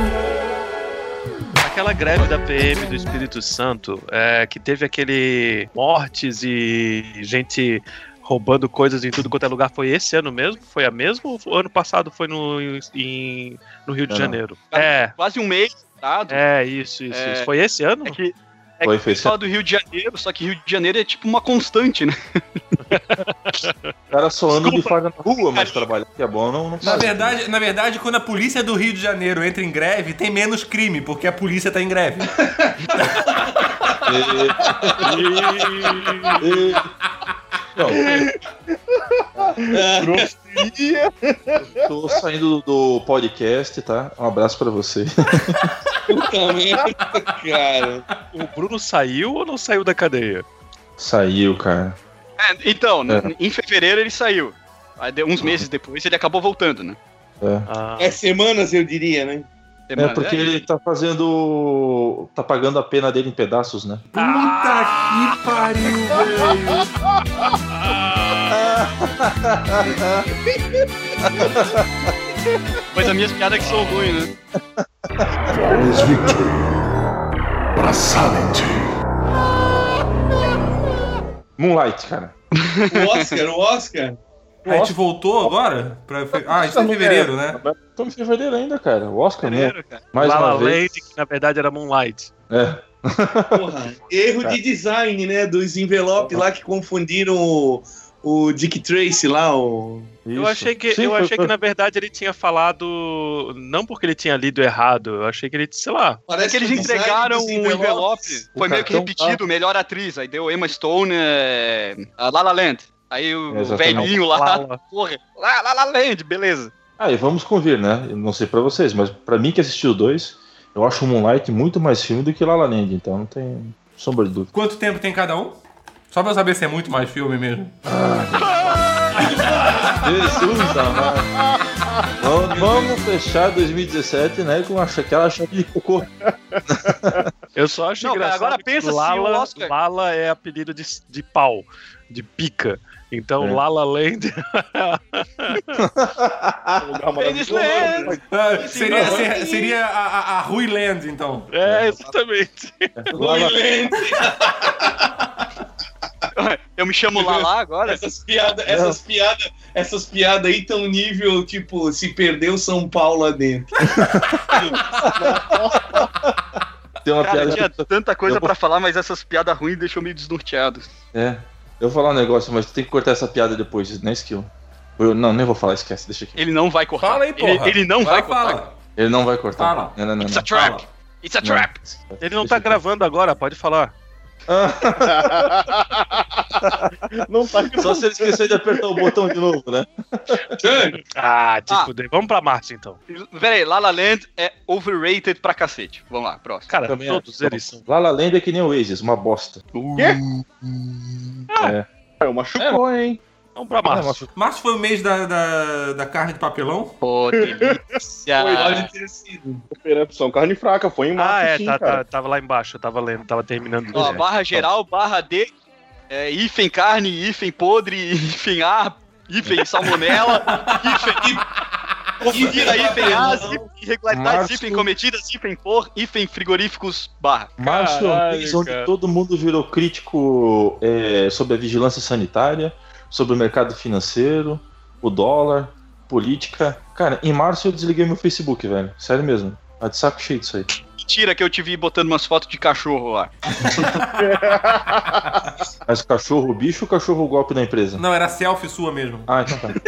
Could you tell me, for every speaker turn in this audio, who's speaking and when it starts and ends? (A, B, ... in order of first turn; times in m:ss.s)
0:01.6-0:15.1 A
0:14.1-0:14.4 B
0:14.7-0:16.4 C
0:16.3-0:18.2 A
0:17.1-0:17.5 C
0:18.0-0:22.6 C
0:18.8-0:19.4 B
0:22.9-0:23.9 A
0:24.1-0:27.4 B
0:24.6-0:25.9 C
0:26.8-0:32.4 D
0:32.3-0:34.0 E
0:33.0-0:33.3 D
0:34.0-0:35.2 B
0:34.7-0:35.0 E
0:35.0-0:36.4 A
0:36.4-0:36.9 B
0:37.7-0:38.1 B
0:37.9-0:38.4 F
0:39.2-0:42.2 F
0:39.7-0:40.3 E
0:41.8-0:45.7 B
0:46.1-0:48.0 E
0:48.3-0:50.4 A
0:51.0-0:52.0 B
0:52.4-0:57.0 C
0:57.4-0:57.7 B
0:57.7-0:58.1 A
0:58.0-0:59.5 E
0:59.9-1:00.6 C
1:00.0-1:04.1 B
1:04.1-1:06.9 D
1:04.2-1:05.4 A
1:07.7-1:08.7 A
1:09.2-1:10.2 B
1:11.4-1:11.8 B
1:12.9-1:14.4 C
1:15.6-1:16.7 G
1:17.8-1:18.9 G
1:21.6-1:22.3 B
1:22.5-1:23.4 C
1:22.9-1:24.2 E
1:24.6-1:24.9 F
1:24.6-1:27.6 D
1:26.4-1:27.8 F
1:28.0-1:31.1 B
1:29.4-1:30.0 C
1:30.2-1:32.3 A
1:32.5-1:33.6 B
1:33.5-1:40.1 E
1:36.2-1:36.4 B
1:40.2-1:41.5 B
1:40.4-1:46.2 A
1:46.3-1:48.4 E
1:46.4-1:56.7 C
1:48.5-1:49.4 B
1:53.5-1:54.1 B
1:54.3-1:54.8 A
1:57.0-2:04.5 B
2:04.5-2:05.6 D
2:06.1-2:07.7 D
2:07.8-2:08.9 B
2:08.4-2:09.3 C
2:10.0-2:11.3 B
2:12.2-2:16.1 B
2:16.5-2:17.2 F
2:16.7-2:17.2 B
2:17.5-2:25.8 A
2:18.0-2:19.7 C
2:25.8-2:26.8 B
2:26.8-2:28.2 F
2:27.2-2:29.7 C
2:27.5-2:28.0 E
2:28.3-2:31.5 D
2:28.9-2:29.3 B
2:31.5-2:32.9 A
2:31.6-2:31.9 B
2:32.9-2:33.6 B
2:33.1-2:34.9 E
2:36.4-2:38.0 C
2:37.1-2:43.9 E
2:38.7-2:39.0 B
2:43.9-2:44.2 B
2:44.7-2:46.0 F
2:47.0-2:48.5 B
2:47.2-2:50.9 C
2:51.1-2:56.4 B
2:56.4-2:58.6 C
2:57.0-2:58.7 D
2:59.0-3:00.5 B
2:59.6-3:00.0 D
3:00.2-3:01.8 C
3:00.5-3:00.8 D
3:01.4-3:02.8 B
3:02.2-3:03.9 A
3:04.5-3:05.5 B
3:05.0-3:09.3 F
3:07.8-3:10.5 B
3:10.6-3:11.0 E
3:11.1-3:13.0 A
3:13.1-3:16.7 C
3:16.7-3:17.8 A
3:16.9-3:19.6 B
3:19.7-3:20.4 C
3:21.6-3:21.9 B
3:22.2-3:23.1 F
3:22.6-3:23.2 B
3:23.5-3:24.2 A
3:23.8-3:24.3 B
3:24.3-3:27.0 D
3:27.0-3:28.9 C
3:27.4-3:28.8 F
3:28.6-3:29.6 E
3:29.7-3:32.0 F
3:31.2-3:34.2 A
3:33.9-3:35.5 C
3:34.2-3:34.6 B
3:36.1-3:41.4 C
3:40.4-3:40.8 D
3:42.2-3:47.5 C
3:42.2-3:43.7 E
3:44.1-3:44.9 B
3:47.6-4:00.7 B
3:47.6-3:48.9 A
4:01.0-4:03.3 C
4:04.0-4:04.3 D
4:04.2-4:05.2 F
4:05.8-4:08.0 B
4:08.0-4:09.3 D
4:09.3-4:09.8 B